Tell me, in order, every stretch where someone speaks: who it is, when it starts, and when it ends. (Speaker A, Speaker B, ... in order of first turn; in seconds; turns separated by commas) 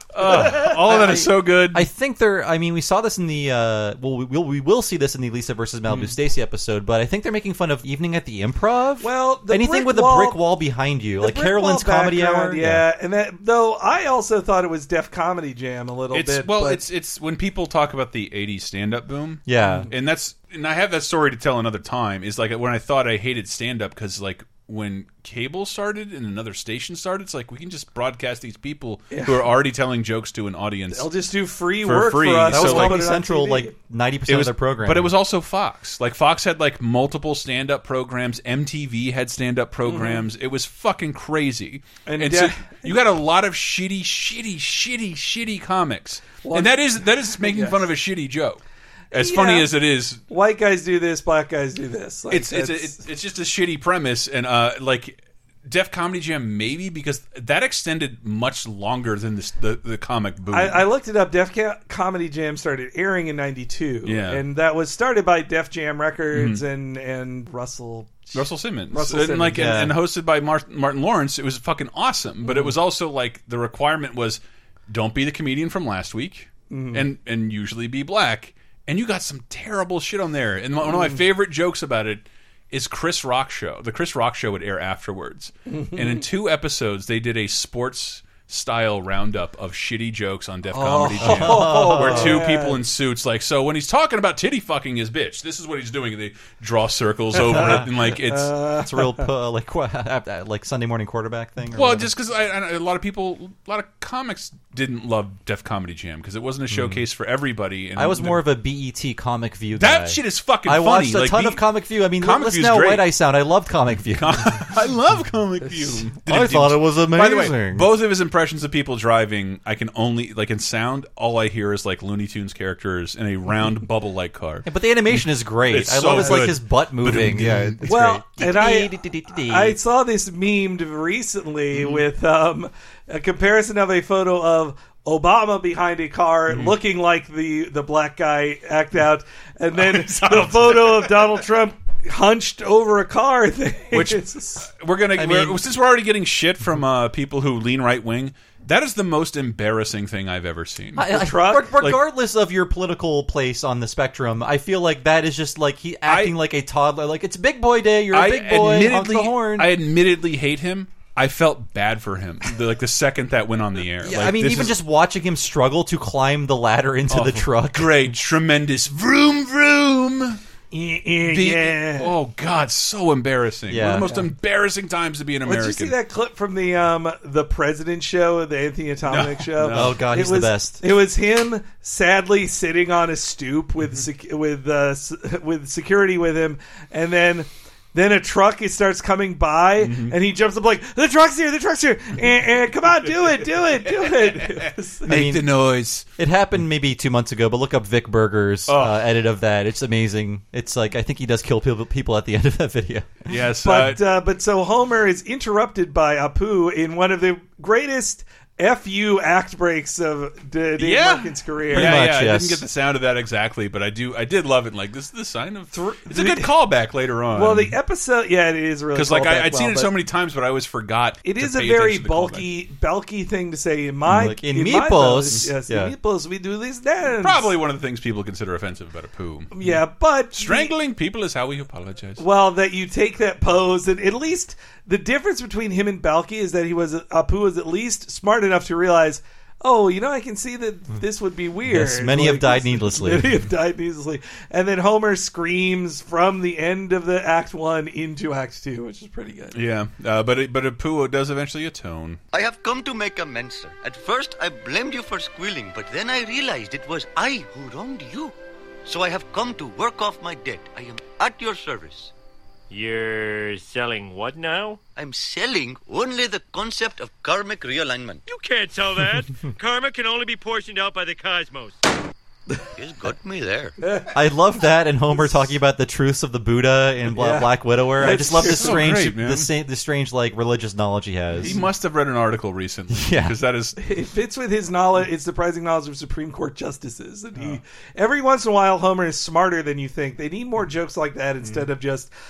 Speaker A: 0.1-1.9, Speaker B: 0.2-12.8, Speaker A: 5.9-6.1, Speaker C: 9.0-10.4, Speaker C: 11.2-16.8, Speaker A: 16.1-31.1, Speaker B: 19.5-19.9, Speaker C: 29.1-29.5, Speaker C: 30.9-33.7, Speaker A: 31.8-33.0, Speaker B: 32.5-35.1, Speaker A: 34.3-50.2, Speaker C: 39.8-40.3, Speaker C: 42.1-43.0, Speaker C: 46.4-47.9, Speaker C: 49.1-49.7, Speaker C: 50.3-53.0, Speaker A: 52.3-60.9, Speaker C: 60.5-69.8, Speaker A: 64.0-64.4, Speaker A: 66.3-66.6, Speaker A: 68.3-98.5, Speaker B: 69.5-69.9, Speaker C: 72.5-72.7, Speaker C: 76.7-77.1, Speaker C: 80.8-81.2, Speaker C: 85.7-86.2, Speaker C: 90.7-92.8, Speaker B: 91.2-92.4, Speaker C: 97.4-99.3, Speaker B: 97.5-97.9, Speaker B: 98.8-102.1, Speaker A: 101.7-108.5, Speaker B: 106.7-107.0, Speaker B: 108.0-114.7, Speaker A: 109.8-111.7, Speaker A: 112.2-113.1, Speaker A: 114.1-128.0, Speaker B: 116.3-117.9, Speaker B: 124.7-129.8, Speaker C: 127.8-144.7, Speaker A: 131.7-132.0, Speaker A: 136.5-136.8, Speaker A: 139.7-141.3, Speaker A: 143.9-151.1, Speaker B: 145.2-145.6, Speaker B: 151.0-159.7, Speaker C: 151.1-152.0, Speaker A: 156.1-156.4, Speaker A: 158.1-164.8, Speaker B: 164.0-168.0, Speaker A: 167.1-170.4, Speaker C: 170.7-172.1, Speaker A: 171.3-175.9, Speaker B: 173.7-174.1, Speaker C: 175.5-195.1, Speaker A: 179.1-180.0, Speaker B: 179.7-180.8, Speaker A: 189.8-190.2, Speaker A: 193.1-196.1, Speaker B: 195.1-195.5, Speaker B: 196.2-203.1, Speaker A: 198.7-199.0, Speaker A: 203.3-204.0, Speaker C: 203.6-212.0, Speaker A: 210.8-217.7, Speaker B: 211.7-212.6, Speaker C: 215.7-216.5, Speaker C: 217.3-219.9, Speaker A: 218.9-222.5, Speaker C: 221.2-227.5, Speaker B: 224.1-225.9, Speaker A: 227.2-229.8, Speaker C: 229.5-230.7, Speaker A: 230.3-232.2, Speaker C: 232.2-249.6, Speaker B: 241.7-243.4, Speaker A: 249.5-252.2, Speaker D: 252.3-258.3, Speaker D: 258.9-262.1, Speaker E: 262.7-264.8, Speaker D: 265.0-268.2, Speaker E: 268.3-271.8, Speaker D: 272.8-273.8, Speaker C: 273.8-274.1, Speaker B: 274.1-281.6, Speaker C: 277.1-278.9, Speaker A: 278.1-279.5, Speaker A: 281.4-283.8, Speaker B: 282.9-283.4, Speaker C: 283.8-292.1